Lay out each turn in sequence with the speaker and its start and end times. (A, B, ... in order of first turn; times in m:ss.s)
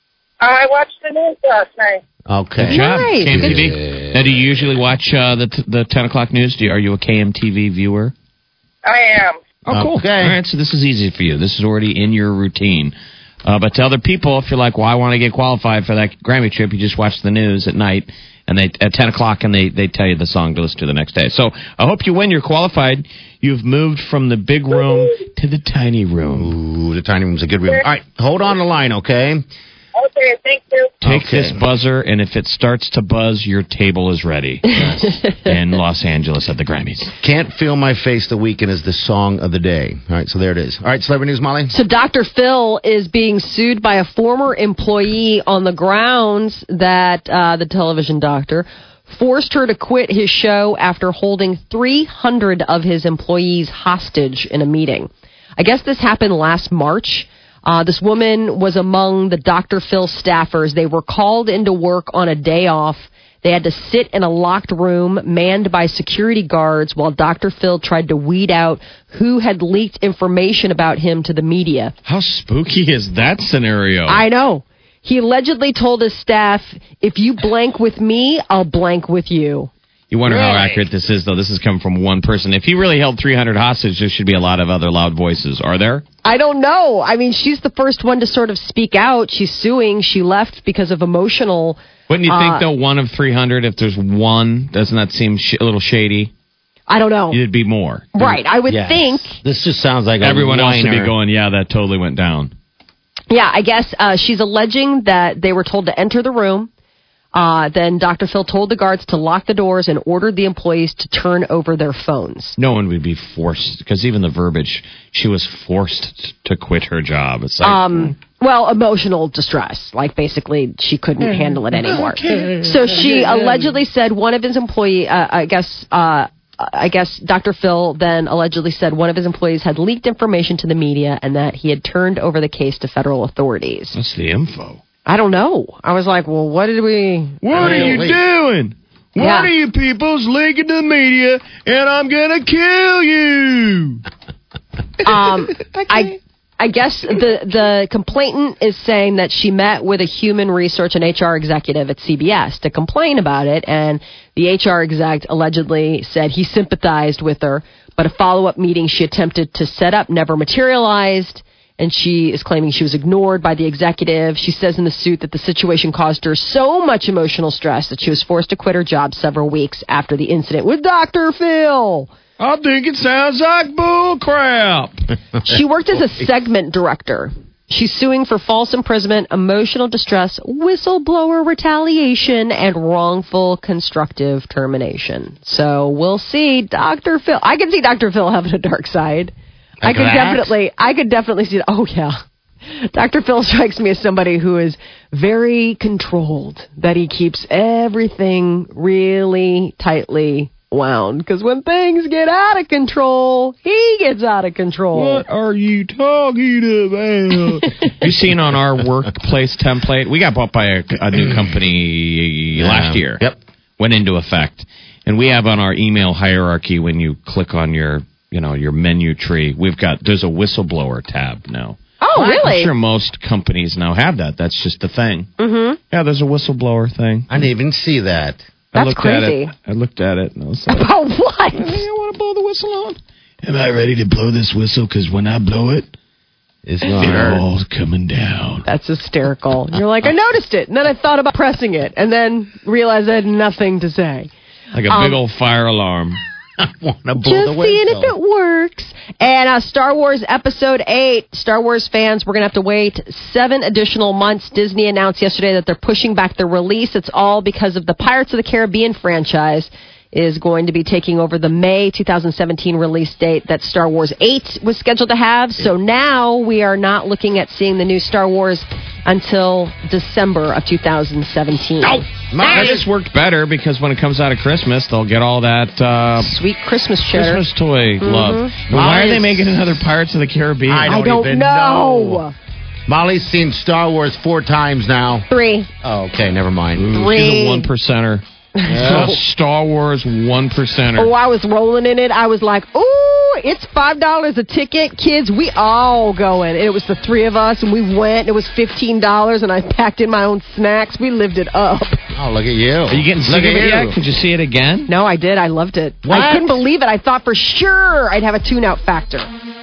0:00.4-0:02.0 A
0:02.3-0:04.7 B
0:02.6-0:08.1 C
0:02.7-0:03.6 D
0:08.8-0:09.4 A
0:09.7-0:26.6 C
0:09.7-0:10.4 B
0:26.4-0:29.5 B
0:30.0-0:31.0 A
0:31.0-0:37.1 C
0:31.0-0:31.6 B
0:37.2-0:41.7 B
0:41.7-1:11.9 D
1:12.1-1:14.2 C
1:14.1-1:19.7 D
1:20.1-1:26.0 C
1:20.3-1:20.8 B
1:26.2-1:32.6 D
1:32.1-1:36.3 C
1:36.9-1:37.4 D
1:37.3-1:38.3 C
1:38.2-1:39.4 D
1:38.7-1:41.1 B
1:40.2-1:42.5 C
1:43.3-1:46.7 D
1:47.3-1:52.6 D
1:52.6-1:58.1 C
1:57.6-2:14.0 D
2:13.9-2:14.8 C
2:15.1-2:17.8 D
2:17.4-2:24.0 C
2:17.5-2:18.2 B
2:19.2-2:19.5 D
2:25.0-2:52.1 D
2:52.4-2:55.0 C
2:55.5-3:25.2 D
3:09.8-3:10.5 B
3:24.9-3:33.2 C
3:32.6-3:33.4 B
3:33.8-3:45.3 C
3:42.0-3:42.7 D
3:45.4-3:45.8 D
3:45.9-3:47.3 C
3:47.3-3:48.4 B
3:48.7-3:49.5 D
3:48.7-3:50.9 C
3:50.7-3:51.8 D
3:51.5-3:55.9 C
3:56.6-3:57.4 B
3:56.8-3:58.6 C
3:58.6-4:04.3 D
4:04.7-4:06.2 C
4:04.9-4:05.2 D
4:06.6-4:08.1 B
4:07.2-4:32.7 D
4:32.3-4:32.9 B
4:32.4-4:36.4 C
4:36.2-4:37.4 D
4:37.1-4:40.9 C
4:38.0-4:38.5 D
4:38.7-4:39.7 B
4:40.7-4:42.2 B
4:40.9-4:42.3 D
4:42.9-4:45.3 B
4:45.3-4:45.7 D
4:45.8-4:47.0 B
4:46.8-4:48.2 C
4:46.9-4:47.7 D
4:48.6-4:49.2 D
4:48.7-4:49.2 B
4:48.8-4:51.1 C
4:51.0-5:02.0 D
5:02.1-5:04.0 B
5:02.9-5:04.9 C
5:04.9-5:09.3 D
5:06.0-5:06.6 B